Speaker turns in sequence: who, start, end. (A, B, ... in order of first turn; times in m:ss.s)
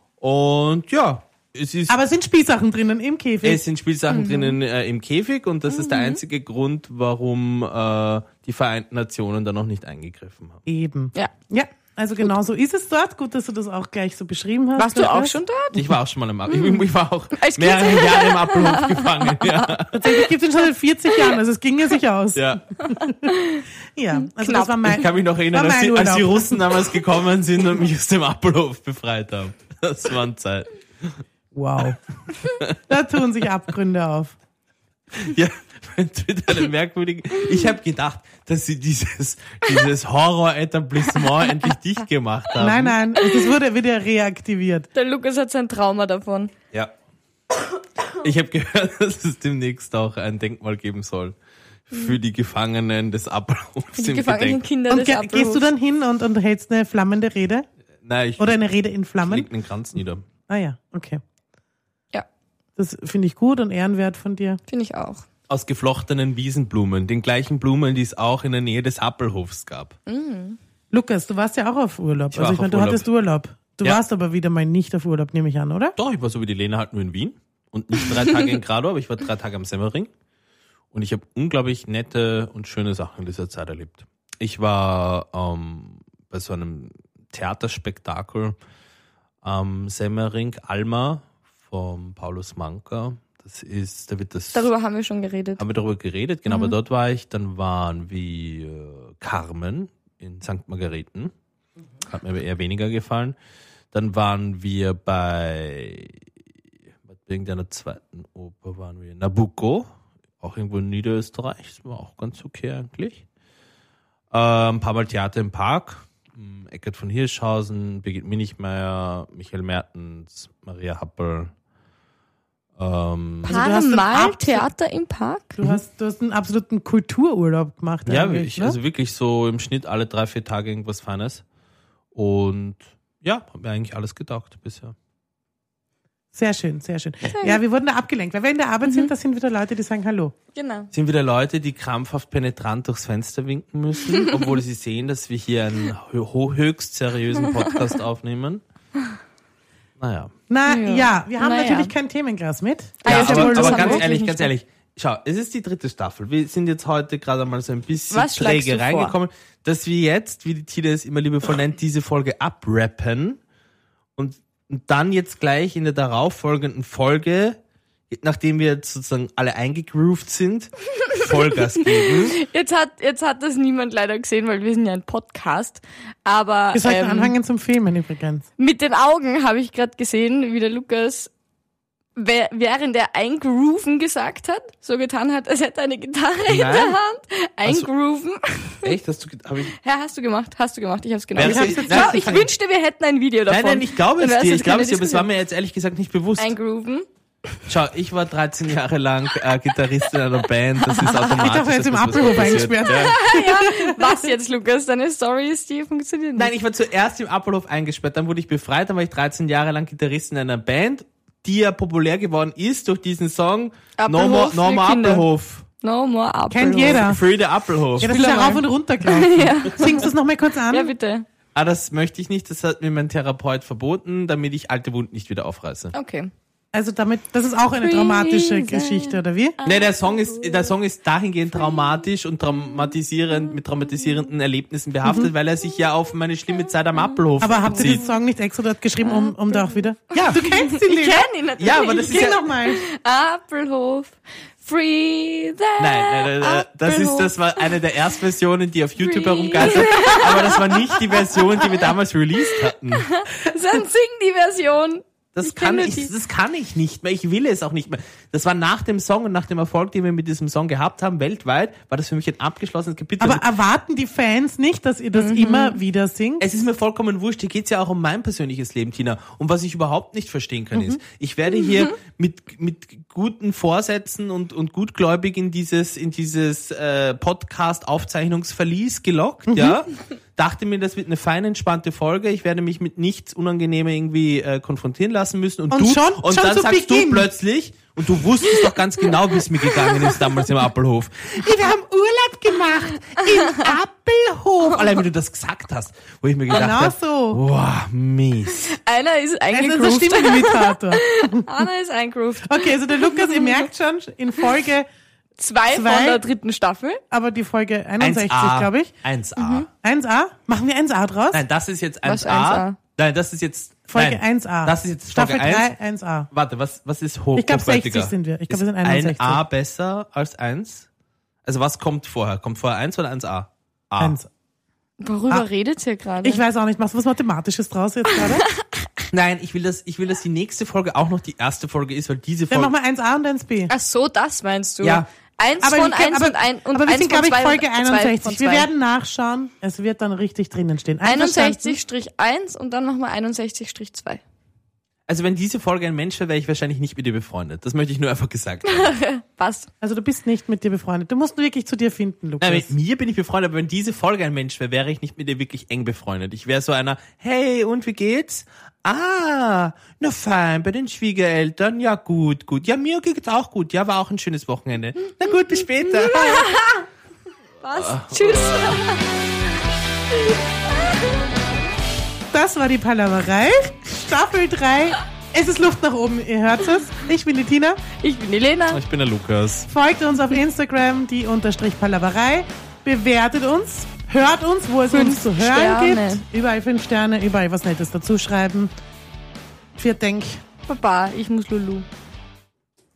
0:00.2-0:02.0 A
0:01.9-0:03.6 B
0:03.4-0:10.6 A
0:04.1-0:04.5 C
0:05.7-0:06.2 C
0:10.6-0:15.4 B
0:14.8-0:15.8 C
0:15.7-0:20.3 A
0:16.5-0:19.7 C
0:19.9-0:23.3 B
0:22.3-0:22.6 A
0:22.8-0:23.6 C
0:23.9-0:26.6 B
0:24.2-0:24.8 C
0:24.8-0:31.2 A
0:31.5-0:32.0 B
0:32.4-0:32.8 A
0:32.9-0:34.3 B
0:35.1-0:43.0 A
0:42.6-0:44.9 B
0:44.9-0:46.5 C
0:48.2-0:51.4 A
0:51.9-0:54.6 A
0:54.0-0:55.7 C
0:54.9-0:57.6 B
0:58.0-0:58.6 A
0:58.4-0:59.5 B
0:59.2-1:00.2 A
1:00.5-1:01.2 B
1:02.8-1:04.6 B
1:04.7-1:05.2 C
1:05.5-1:10.0 A
1:10.1-1:10.6 C
1:10.9-1:16.0 B
1:12.3-1:13.1 A
1:16.0-1:20.1 A
1:20.9-1:28.6 A
1:29.4-1:34.7 A
1:34.5-1:35.6 C
1:35.6-1:41.3 A
1:36.5-1:36.7 C
1:42.0-1:43.4 A
1:43.9-1:46.2 A
1:47.0-1:49.9 A
1:50.4-1:53.2 A
1:54.3-2:01.5 A
2:02.8-2:03.6 A
2:03.4-2:04.7 B
2:03.4-2:05.6 C
2:05.6-2:08.8 B
2:08.0-2:11.4 A
2:12.1-2:15.0 A
2:16.3-2:20.3 B
2:17.3-2:17.6 C
2:18.8-2:19.1 C
2:20.5-2:20.9 C
2:20.9-2:28.6 A
2:30.0-2:30.3 A
2:30.5-2:34.0 B
2:30.7-2:31.9 C
2:33.0-2:34.5 C
2:33.1-2:43.4 A
2:38.1-2:39.2 C
2:44.2-2:47.6 A
2:48.1-2:52.4 A
2:51.8-2:57.3 C
2:56.7-2:58.5 B
2:58.6-3:01.3 C
3:02.2-3:08.9 C
3:06.4-3:07.0 A
3:07.6-3:07.9 A
3:08.8-3:09.7 A
3:09.7-3:15.3 C
3:11.3-3:12.5 A
3:11.4-3:12.4 B
3:13.5-3:16.5 A
3:16.4-3:17.1 C
3:17.7-3:23.2 A
3:20.9-3:21.4 C
3:21.2-3:24.3 B
3:22.7-3:26.5 C
3:26.4-3:35.7 A
3:34.0-3:35.2 C
3:35.8-3:37.0 C
3:36.5-3:37.2 B
3:36.9-3:38.2 A
3:38.0-3:40.1 C
3:38.0-3:40.9 B
3:40.7-3:41.2 C
3:41.5-3:45.9 A
3:45.9-3:46.3 C
3:46.7-3:49.6 B
3:47.8-3:50.7 C
3:49.6-3:58.1 A
3:57.4-4:01.3 B
3:57.6-3:58.1 C
3:59.0-4:07.7 C
4:00.1-4:00.4 A
4:01.6-4:02.4 A
4:01.9-4:02.8 B
4:05.8-4:13.1 A
4:09.0-4:11.4 C
4:12.9-4:16.1 C
4:15.3-4:23.4 A
4:23.2-4:26.4 B
4:25.1-4:25.8 C
4:26.4-4:58.7 A
4:39.5-4:39.8 B
4:45.7-4:47.3 B
4:49.8-4:50.2 C
4:53.2-4:53.7 C
4:56.5-4:57.4 B
4:58.6-5:03.6 C
4:59.5-5:01.7 B
5:02.4-5:04.9 B
5:05.4-5:07.0 C
5:05.7-5:06.2 B
5:07.1-5:08.9 B
5:08.0-5:09.7 A
5:09.4-5:09.7 C
5:09.8-5:11.4 B
5:11.3-5:15.7 A
5:12.0-5:12.8 C
5:13.9-5:16.3 B
5:16.3-5:20.9 A
5:17.4-5:19.4 B
5:21.4-5:24.2 A
5:24.0-5:24.3 B
5:25.0-5:26.4 C
5:26.2-5:28.4 B
5:28.1-5:28.8 C
5:29.1-5:32.7 A
5:32.5-5:33.7 B
5:33.7-5:38.7 C
5:34.8-5:35.1 A
5:35.6-5:41.8 B
5:41.0-5:44.2 C
5:45.1-5:48.9 A
5:48.6-5:49.7 C
5:49.8-5:52.7 B
5:52.4-6:06.6 A
6:06.0-6:06.8 C
6:07.6-6:09.1 C
6:07.8-6:08.8 A
6:10.1-6:10.4 C
6:12.3-6:17.8 B
6:18.0-6:18.8 C
6:18.7-6:19.7 A
6:19.7-6:28.7 B
6:24.9-6:26.2 C
6:29.8-6:30.4 B
6:30.7-6:31.8 C